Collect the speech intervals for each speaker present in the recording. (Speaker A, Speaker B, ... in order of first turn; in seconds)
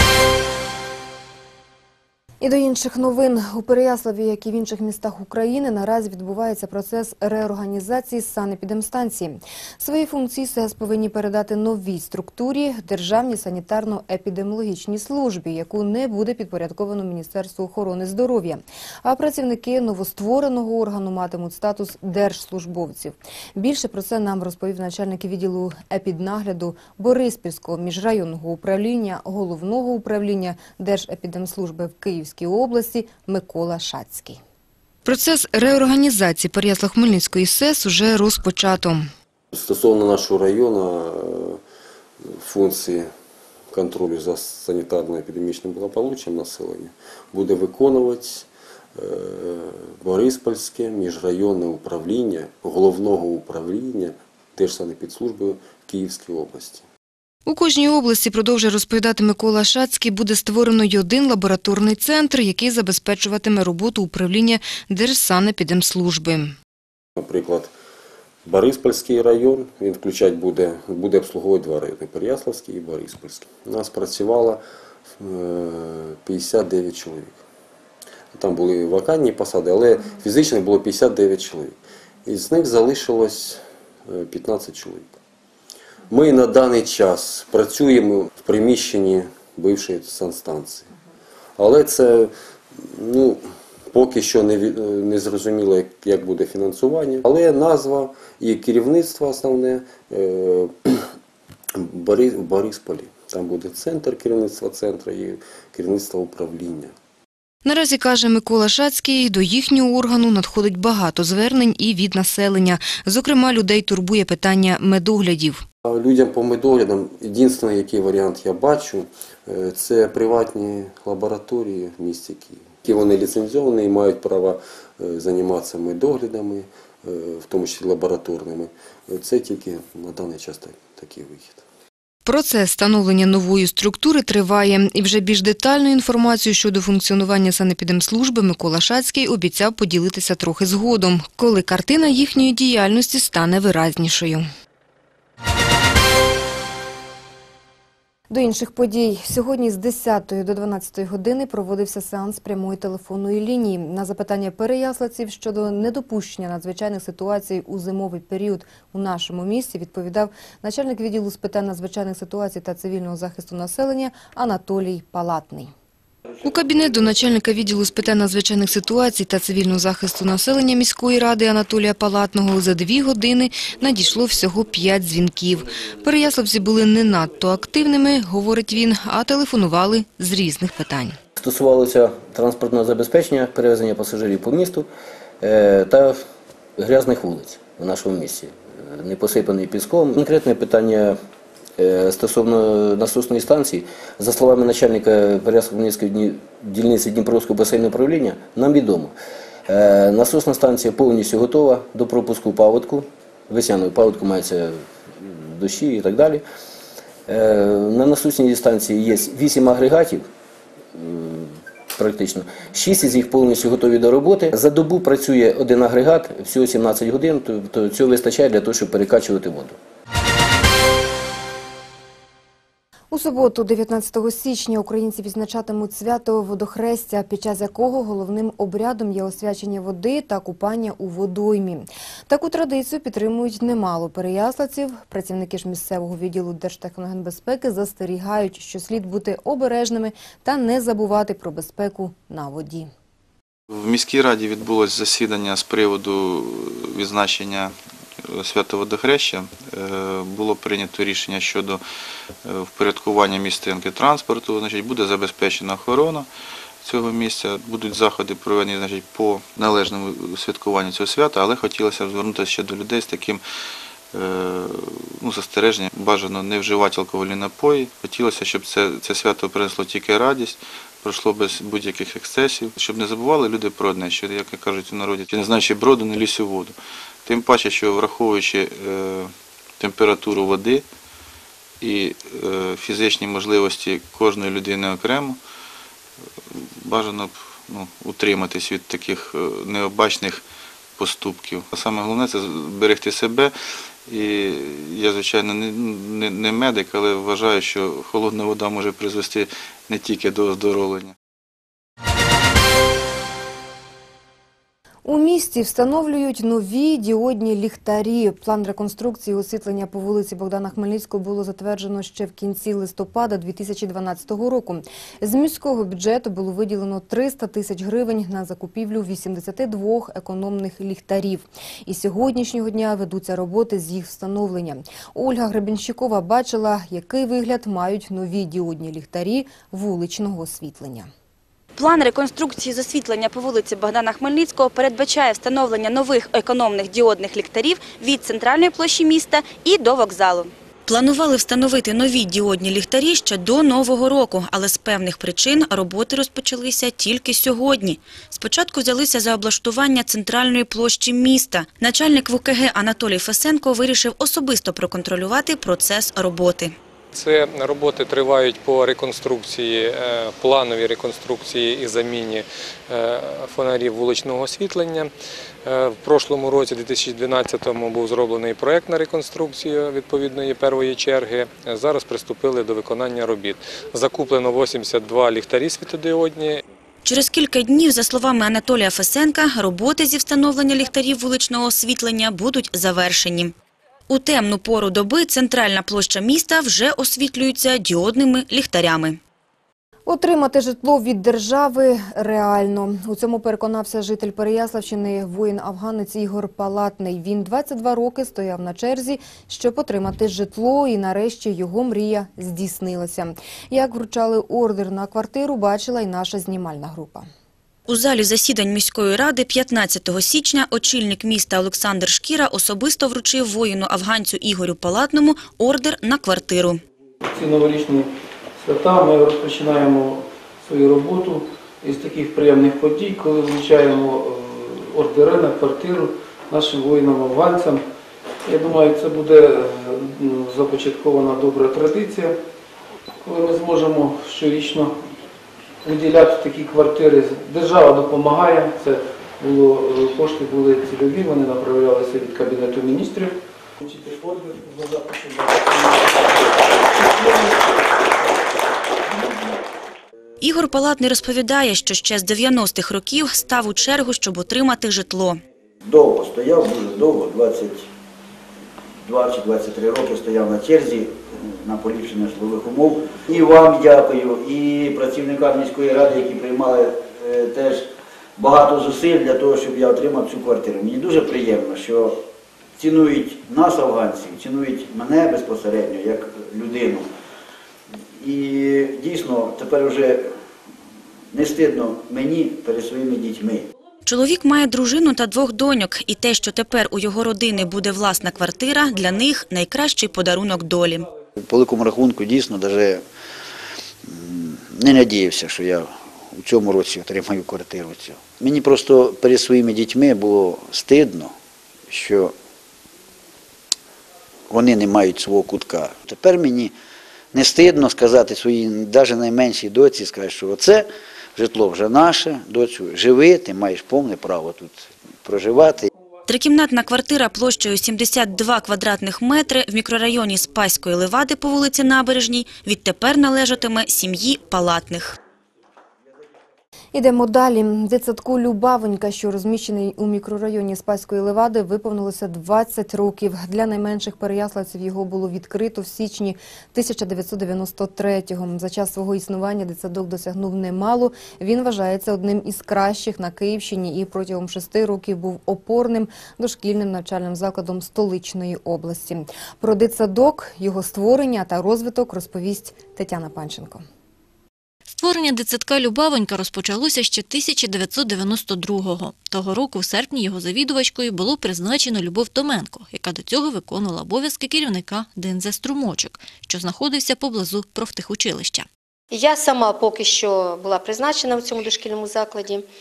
Speaker A: 2.4-34.4, 35.1-39.1, 57.5-66.5, 107.7-115.7, 132.3-144.5, 148.3-165.7, 166.4-181.2, 223.1-242.9, 305.1-331.1, 390.1-407.3, 526.9-553.8
Speaker B: 39.5-41.6, 42.2-43.1, 43.7-56.8, 67.2-67.7, 68.5-74.6, 75.2-77.4, 78.3-85.2, 86.1-90.9, 91.6-101.1, 101.8-106.9, 115.8-131.6
Speaker C: 181.4-184.9, 185.4-186.2, 186.8-191.2, 191.8-199.1, 199.7-206.4, 207.3-210.3, 210.9-219.8
Speaker D: 243.7-251.8, 252.4-256.3, 256.8-263.4, 264.1-280.9, 281.8-285.4, 286.5-290.4, 291.0-293.5, 294.1-301.1
Speaker E: 331.8-356.7, 377.1-383.5, 384.1-389.2, 407.9-416.8, 450.4-455.4, 484.1-491.1, 516.3-525.2
Speaker F: 357.1-365.1, 365.6-376.6
Speaker G: 417.3-427.8, 428.5-432.4, 433.2-435.0, 435.8-447.6
Speaker H: 455.9-457.9, 459.0-472.2, 472.8-477.1, 478.2-480.3, 481.3-483.7, 491.4-493.0, 494.1-501.3, 501.9-502.3, 504.5-506.7, 507.3-515.9
Speaker I: 554.9-568.7
Speaker J: 569.1-572.6